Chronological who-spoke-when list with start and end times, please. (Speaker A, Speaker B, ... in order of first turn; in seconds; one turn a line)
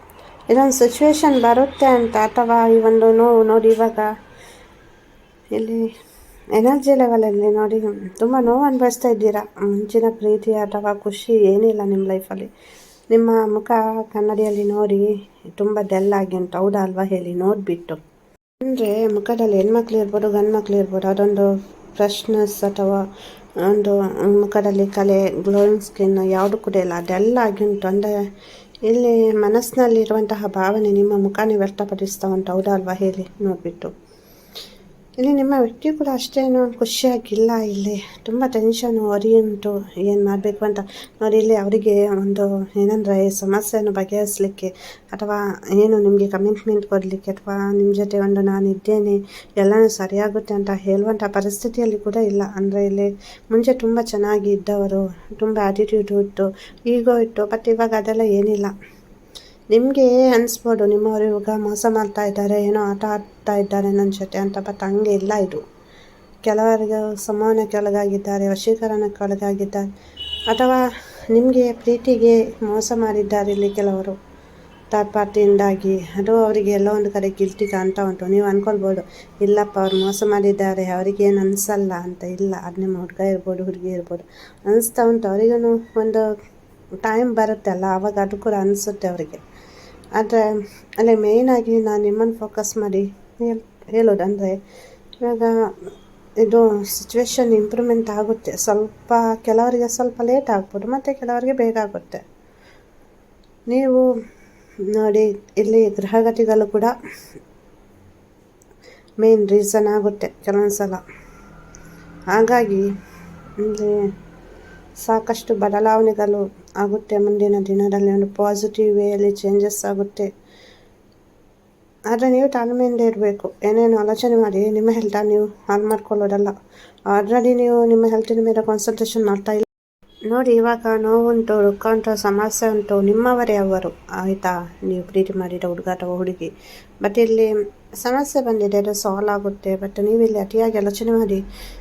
Speaker A: 0.5-4.2
Speaker A: 5.5-5.9
Speaker A: 6.5-12.5
Speaker A: 13.1-18.0
Speaker A: 18.6-23.0
Speaker A: 23.6-28.2
Speaker A: 28.8-33.9
Speaker A: 35.2-58.7
Speaker A: 59.7-65.6
Speaker A: 66.4-69.9
Speaker A: 70.5-74.2
Speaker A: 74.9-86.3
Speaker A: 87.0-89.4
Speaker A: 90.2-94.6
Speaker A: 95.2-102.2
Speaker A: 103.7-104.1
Speaker A: 104.8-106.9
Speaker A: 109.2-111.0
Speaker A: 112.3-112.9
Speaker A: 113.6-114.1
Speaker A: 115.0-120.3
Speaker A: 122.1-126.5
Speaker A: 127.1-129.7
Speaker A: 130.3-141.4